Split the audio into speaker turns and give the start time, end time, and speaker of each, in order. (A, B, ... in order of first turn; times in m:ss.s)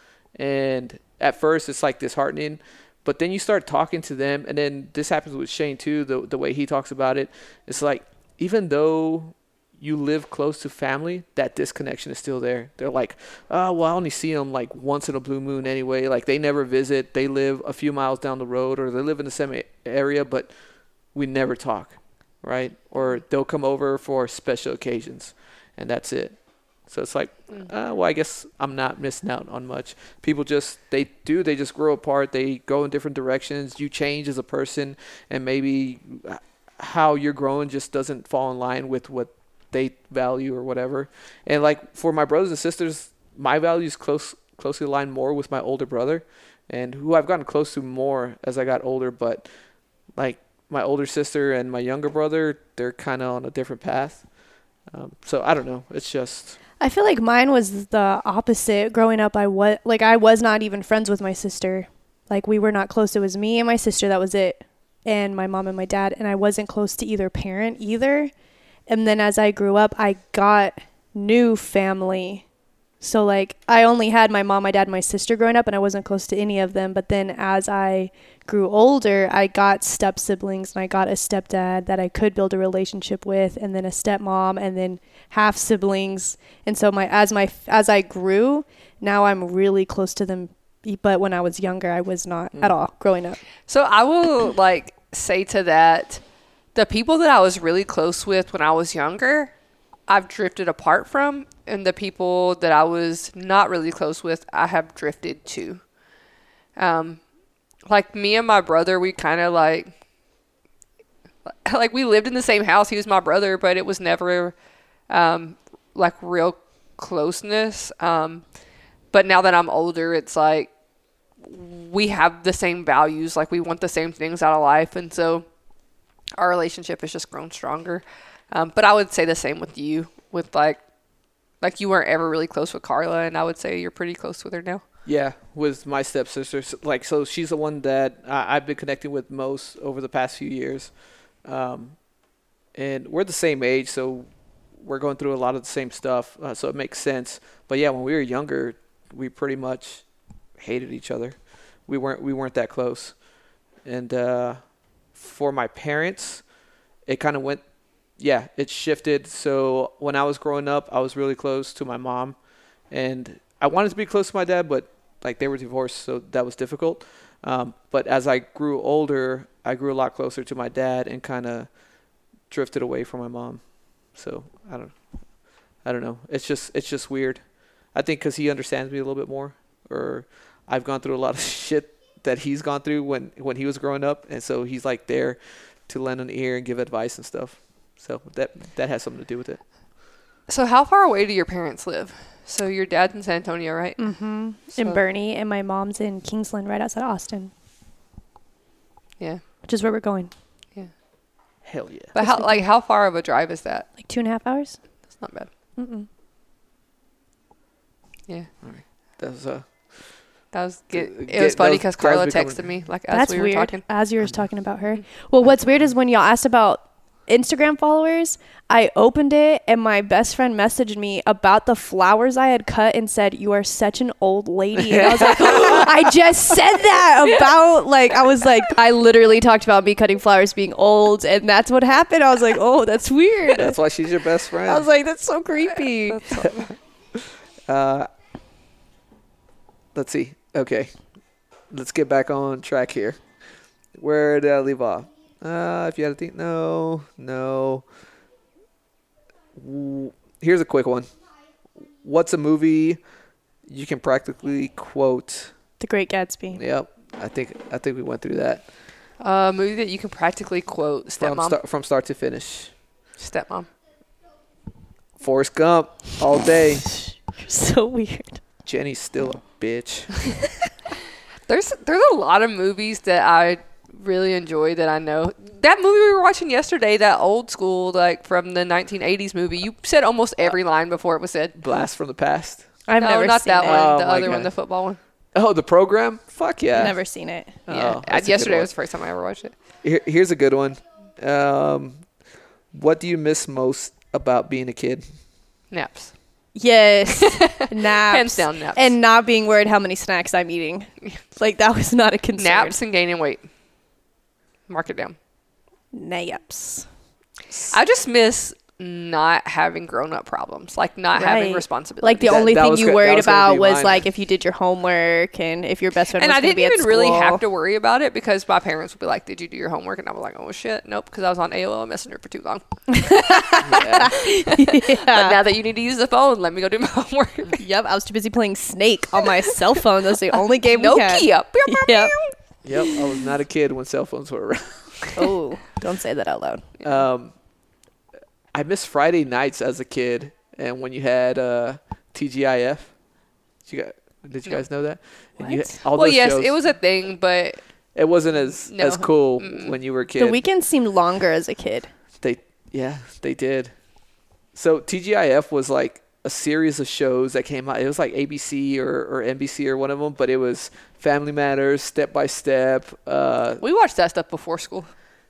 0:00.4-0:20.5 A
0:21.1-0:26.4 A
0:26.9-0:49.5 A
0:50.2-0:54.2 A
0:54.9-0:56.6 A
0:56.8-1:08.3 B
1:08.9-1:12.4 B
1:13.0-1:33.4 B
1:33.7-1:36.2 C
1:36.8-1:39.5 C
1:40.1-1:45.8 C
1:46.8-1:47.2 C
1:47.9-1:49.9 C
1:51.6-1:54.6 C
1:55.1-1:58.4 C
1:59.1-2:00.7 C
2:01.4-2:05.4 C
2:06.4-2:10.8 C
2:11.6-2:14.8 C
2:15.1-2:20.9 A
2:21.4-2:22.0 A
2:22.8-2:30.0 A
2:30.6-2:33.2 A
2:33.8-2:34.6 A
2:35.2-2:36.4 A
2:37.1-2:37.6 A
2:38.2-2:42.4 A
2:42.9-2:51.7 A
2:52.5-2:53.6 A
2:54.2-2:54.9 A
2:55.8-2:57.4 A
2:58.0-3:09.6 A
3:10.5-3:14.0 C
3:14.0-3:17.5 B
3:19.7-3:20.3 B
3:21.6-3:22.1 A
3:22.2-3:23.9 C
3:22.2-3:22.6 B
3:24.0-3:24.8 B
3:25.2-3:25.5 C
3:25.8-3:26.1 B
3:28.6-3:29.7 A
3:30.5-3:33.8 C
3:30.9-3:32.7 A
3:33.1-3:53.8 B
3:44.8-3:46.1 A
3:53.5-3:54.9 A
3:54.6-3:56.4 B
3:56.1-3:56.8 C
3:57.2-3:58.1 A
4:00.0-4:00.9 A
4:01.7-4:03.2 A
4:04.0-4:07.8 A
4:09.6-4:11.1 A
4:12.0-4:13.0 A
4:13.7-4:15.5 A
4:15.8-4:16.6 B
4:16.6-4:18.6 A
4:19.2-4:21.6 C
4:21.2-4:22.7 A
4:23.2-4:23.7 C
4:25.2-4:26.9 A
4:26.8-4:28.4 B
4:28.6-4:30.2 A
4:31.5-4:41.6 C
4:41.6-4:42.7 A
4:42.9-4:43.9 B
4:43.0-4:45.0 C
4:43.6-4:44.5 A
4:45.4-4:47.0 A
4:46.8-4:47.6 B
4:47.7-4:48.7 A
4:47.7-4:49.6 C
4:49.8-4:52.0 A
4:52.7-4:55.0 A
4:55.7-4:56.1 C
4:56.6-5:02.8 B
4:57.2-4:58.9 C
5:02.4-5:03.5 C
5:04.7-5:05.2 C
5:05.9-5:06.9 B
5:07.7-5:12.4 C
5:11.1-5:17.4 B
5:12.2-5:14.0 A
5:16.2-5:27.6 C
5:22.9-5:25.4 B
5:23.6-5:24.2 A
5:27.6-5:32.1 B
5:30.7-5:32.3 C
5:32.6-5:35.0 A
5:35.2-5:36.7 B
5:36.8-5:37.3 A
5:38.5-5:42.9 A
5:43.7-5:46.5 A
5:45.4-5:45.8 B
5:45.9-5:47.6 C
5:48.0-5:50.4 A
5:48.7-5:49.8 C
5:50.2-5:51.9 B
5:52.2-5:53.7 A
5:54.6-6:03.6 A
6:03.6-6:04.9 C